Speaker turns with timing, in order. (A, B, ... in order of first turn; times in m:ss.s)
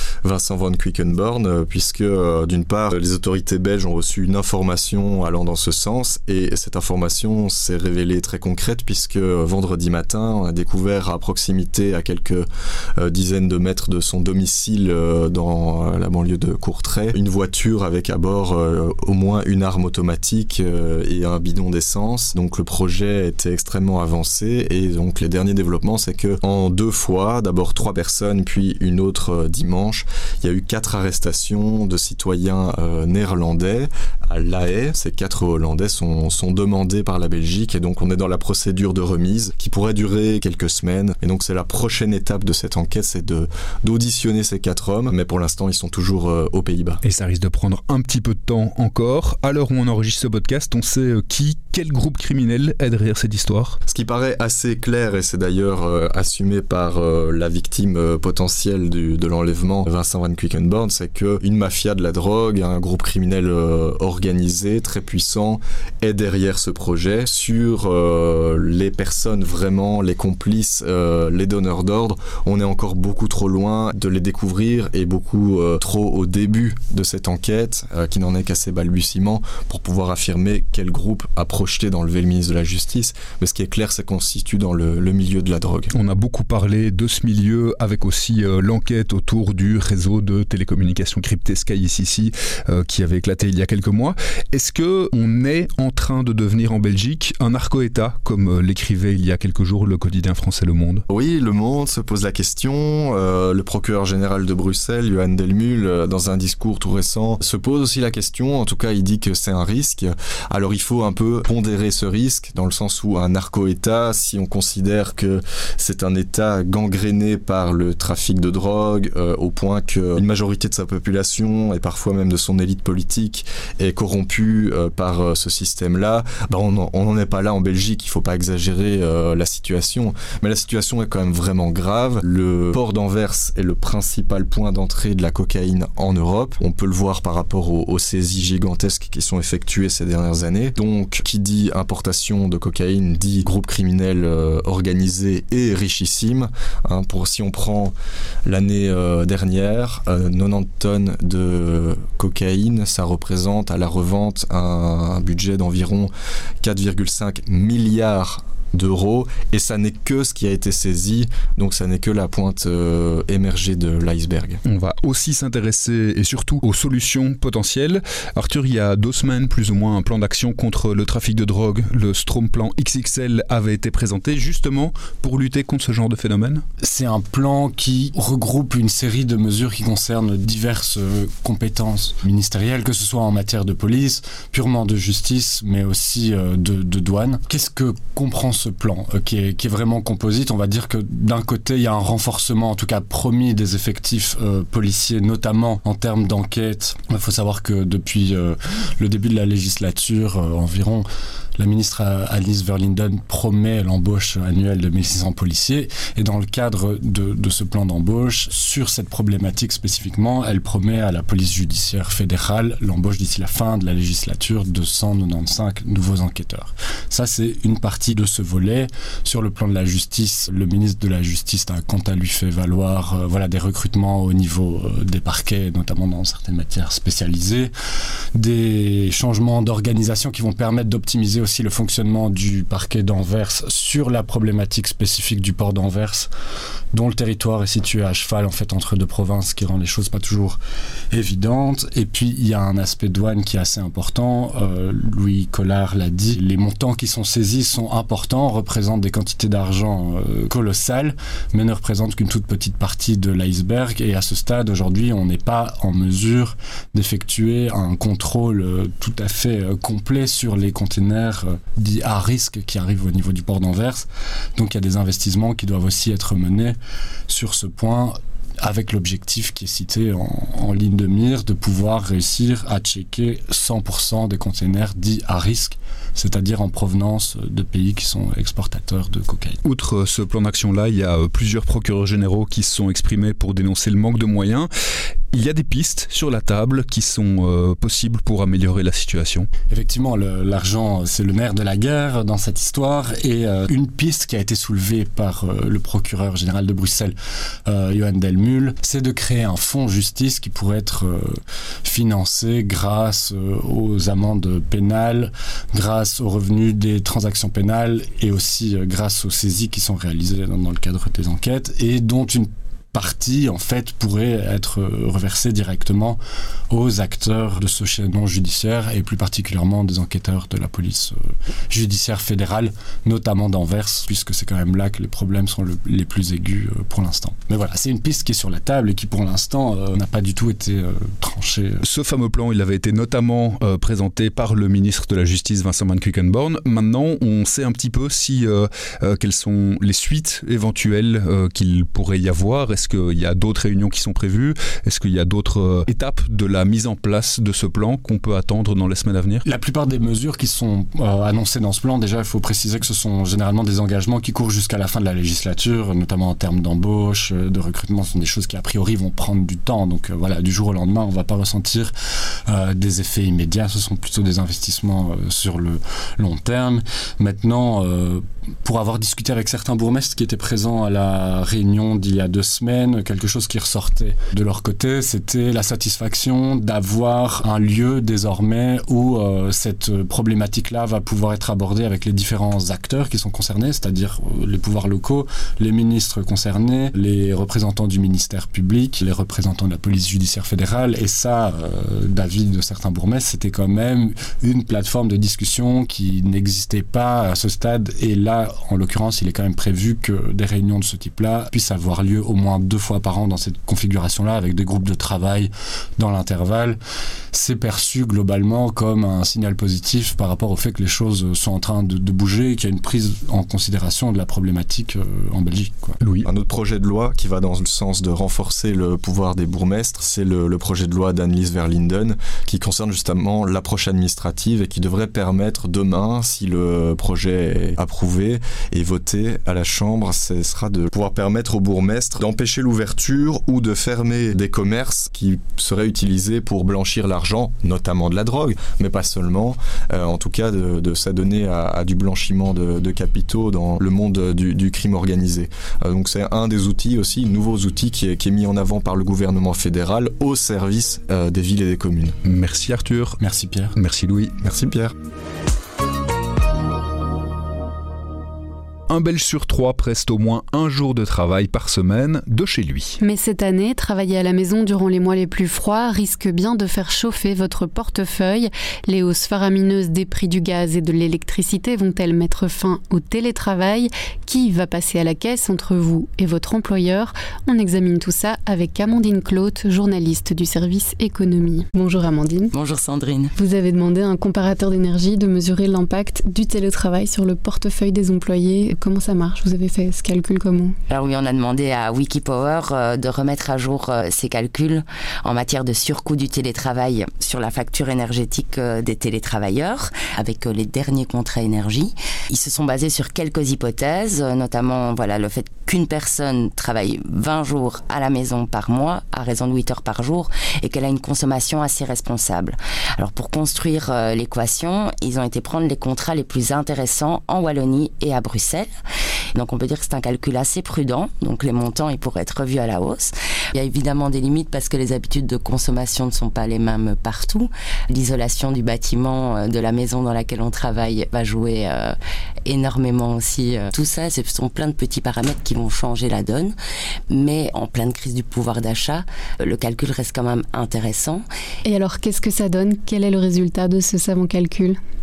0:00.2-0:47.0 A
0:47.0-0:53.8 B
0:53.9-1:25.9 A
1:25.9-1:41.0 B
1:41.1-2:27.9 A
2:28.5-2:36.1 A
2:36.6-2:44.6 A
2:44.7-2:56.6 B
2:56.8-3:21.1 C
3:21.6-3:47.7 C
3:48.4-3:56.3 C
3:56.9-4:00.6 C
4:01.1-4:26.8 C
4:27.3-4:39.6 C
4:39.6-4:44.7 B
4:45.3-4:49.5 B
4:49.7-4:57.2 C
4:57.7-5:16.2 C
5:16.7-5:21.2 C
5:21.7-5:31.8 C
5:31.8-5:49.4 B
5:49.4-6:01.9 C
6:02.5-6:46.8 C
6:47.3-6:56.0 C
6:56.0-6:56.3 B
6:56.2-7:32.2 A
7:32.2-7:33.2 B
7:33.2-7:33.7 C
7:33.8-7:34.3 B
7:34.4-7:35.0 A
7:38.9-7:43.0 B
7:43.0-8:02.5 D
8:02.5-8:03.3 E
8:03.4-8:10.8 D
8:10.9-8:38.7 E
8:39.4-8:56.6 E
8:57.1-9:01.2 E
9:01.6-9:04.8 D